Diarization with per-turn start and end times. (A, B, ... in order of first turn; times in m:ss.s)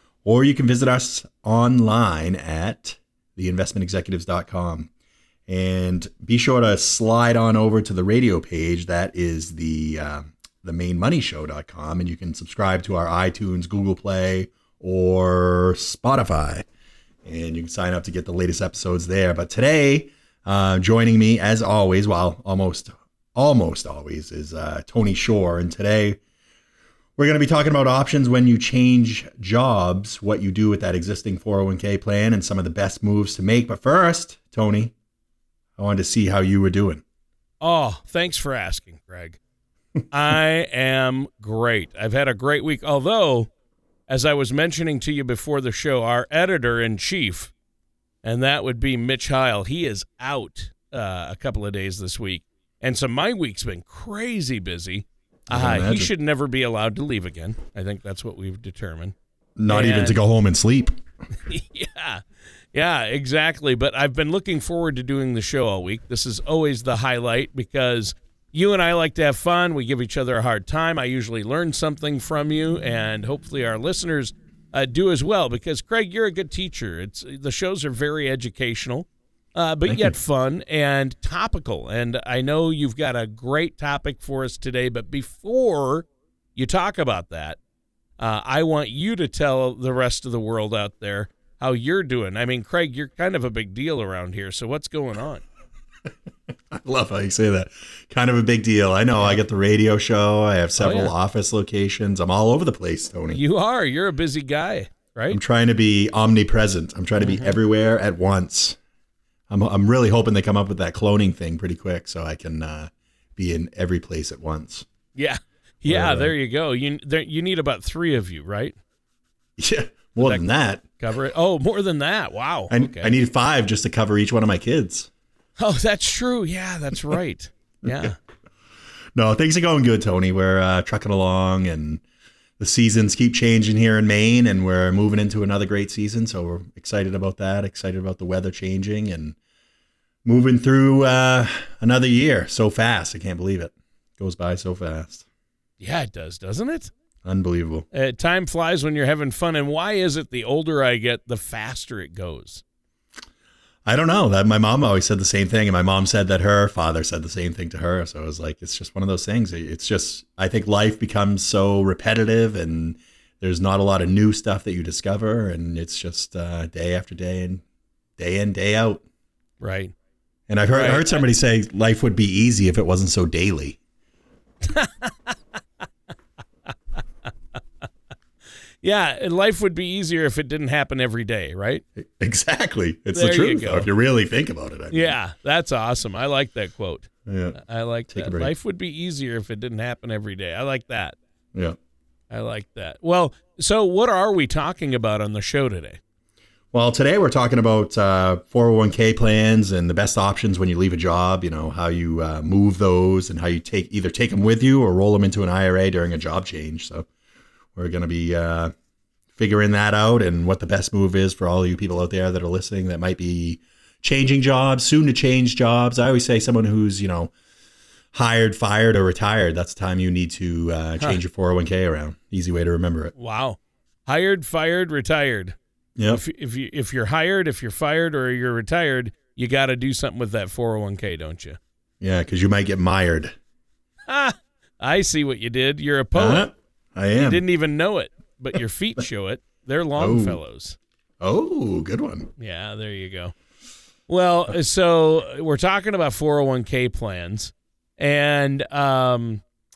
0:00.2-0:04.9 A
0:05.5-0:16.6 A
0:17.2-0:26.2 A
0:27.2-0:34.9 A
0:35.8-0:37.0 A
0:37.6-0:39.4 B
0:40.1-0:43.5 B
0:44.1-0:47.5 B
0:48.2-0:59.1 B
0:55.5-0:56.1 A
0:59.6-1:01.0 A
0:59.7-1:00.2 B
1:01.5-1:27.6 B
1:19.9-1:20.1 A
1:28.2-1:35.4 B
1:36.7-1:43.4 A
1:40.8-1:41.1 B
1:43.3-1:45.4 B
1:45.3-1:48.8 A
1:47.2-1:47.6 B
1:49.5-1:54.9 A
1:55.2-1:58.8 B
1:55.8-1:56.3 A
1:59.6-2:00.8 A
2:00.2-2:00.4 B
2:01.0-2:03.1 B
2:02.7-2:05.1 A
2:05.6-2:08.2 B
2:09.1-2:12.0 A
2:12.6-2:19.4 A
2:20.2-2:25.2 A
2:25.8-2:26.9 B
2:27.2-2:27.9 A
2:27.9-2:32.6 B
2:33.8-2:47.6 A
2:48.2-2:49.0 A
2:49.6-2:49.9 B
2:50.5-2:53.8 A
2:50.7-2:51.2 B
2:54.6-2:55.3 B
2:58.8-3:01.8 B
3:02.0-3:05.2 A
3:03.1-3:03.9 B
3:04.9-3:11.2 B
3:07.2-3:07.6 A
3:08.1-3:08.5 A
3:12.3-3:16.0 B
3:16.7-3:27.1 A
3:27.8-3:28.7 A
3:29.4-3:37.3 A
3:38.1-3:43.1 A
3:43.2-3:45.6 B
3:46.0-3:46.2 A
3:46.1-3:51.6 B
3:52.0-3:53.3 A
3:54.1-3:56.5 B
3:56.1-3:57.4 A
3:57.1-4:00.8 B
4:00.0-4:00.4 A
4:01.2-4:02.3 A
4:02.4-4:03.3 B
4:04.1-4:09.4 B